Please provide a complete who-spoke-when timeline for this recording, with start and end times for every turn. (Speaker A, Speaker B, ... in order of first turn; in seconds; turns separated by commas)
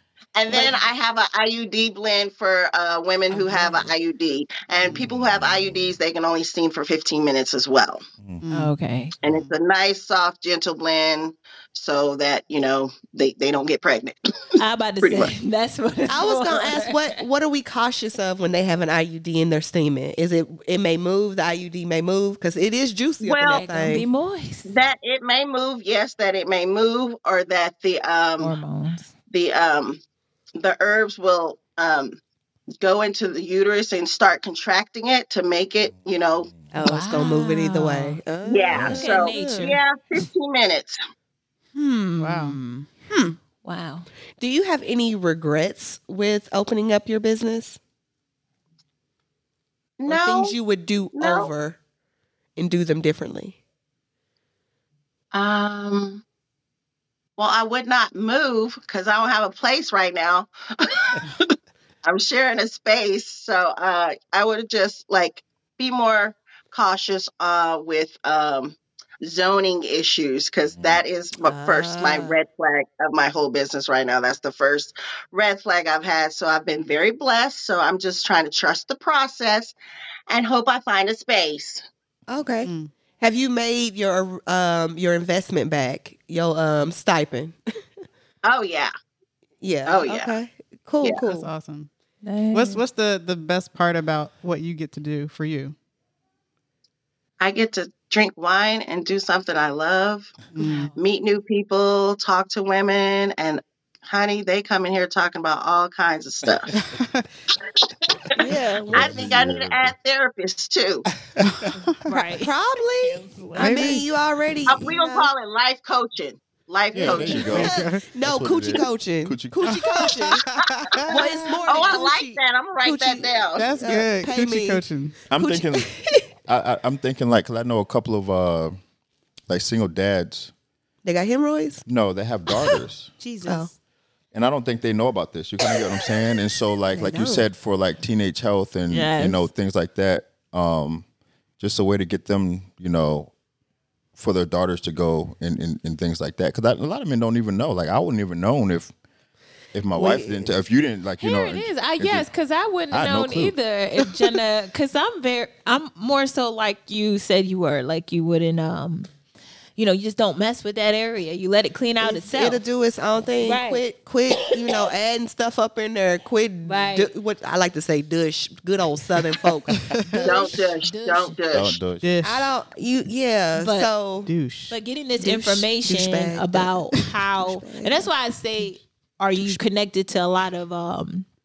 Speaker A: 0.3-8.0, Speaker B: 0.5-0.8, Speaker C: 3.3-3.9, Speaker D: 4.8-5.9, Speaker E: 8.4-8.7, Speaker C: 8.5-9.1, Speaker A: 9.2-14.1, Speaker C: 14.6-17.2, Speaker A: 15.0-15.3, Speaker B: 16.1-24.1, Speaker A: 23.2-23.9, Speaker C: 23.5-24.7, Speaker A: 24.7-28.6, Speaker C: 28.4-29.1, Speaker A: 29.3-30.0, Speaker A: 30.6-32.2, Speaker A: 32.8-36.5, Speaker D: 35.9-36.7, Speaker B: 36.7-39.7, Speaker C: 36.8-38.2, Speaker A: 38.4-41.0, Speaker D: 38.7-39.0, Speaker C: 38.8-39.8, Speaker E: 41.7-43.4, Speaker B: 42.2-42.5, Speaker C: 43.6-44.1, Speaker B: 44.4-47.8, Speaker A: 50.0-50.5, Speaker B: 50.1-51.8, Speaker A: 51.1-51.5, Speaker B: 52.6-53.5, Speaker A: 55.3-56.2, Speaker A: 57.4-61.5, Speaker A: 62.0-79.7, Speaker D: 70.7-71.0, Speaker C: 71.4-72.4, Speaker A: 80.3-81.8, Speaker B: 82.3-87.5, Speaker E: 82.6-82.9, Speaker A: 88.4-88.9, Speaker B: 89.6-91.5, Speaker A: 89.8-90.3, Speaker E: 91.2-91.9, Speaker C: 92.2-92.8, Speaker E: 92.5-95.7, Speaker A: 97.4-100.3, Speaker E: 100.5-100.9, Speaker C: 100.6-101.0, Speaker A: 100.9-106.7, Speaker E: 106.7-107.3, Speaker A: 107.7-108.3, Speaker B: 108.3-109.2, Speaker D: 108.9-109.9, Speaker A: 108.9-111.0, Speaker E: 111.4-112.1, Speaker C: 112.0-114.0, Speaker B: 112.4-115.3, Speaker E: 113.5-114.0, Speaker A: 114.7-117.7, Speaker D: 116.9-120.1, Speaker E: 117.0-118.0, Speaker B: 117.2-120.4, Speaker E: 119.7-121.5, Speaker A: 121.0-123.8, Speaker B: 121.1-126.2, Speaker E: 123.5-125.2, Speaker D: 125.3-125.9, Speaker D: 126.5-128.8, Speaker D: 129.5-130.5, Speaker B: 131.0-131.8, Speaker D: 131.8-133.1, Speaker C: 133.2-133.7, Speaker D: 134.3-141.0, Speaker B: 136.9-137.4, Speaker C: 138.9-139.5, Speaker D: 141.6-143.3, Speaker D: 144.2-148.9, Speaker D: 149.7-152.3, Speaker B: 149.9-150.6, Speaker C: 151.2-159.1, Speaker D: 152.9-153.6, Speaker C: 159.8-162.6, Speaker B: 162.0-170.4, Speaker C: 163.4-163.8, Speaker C: 166.7-167.1, Speaker E: 169.7-170.5, Speaker C: 170.2-171.4, Speaker A: 170.2-171.8, Speaker D: 171.5-172.1, Speaker E: 172.0-172.5, Speaker B: 172.2-174.3, Speaker C: 173.6-173.9, Speaker E: 174.2-174.8, Speaker C: 174.7-181.2, Speaker B: 175.2-178.1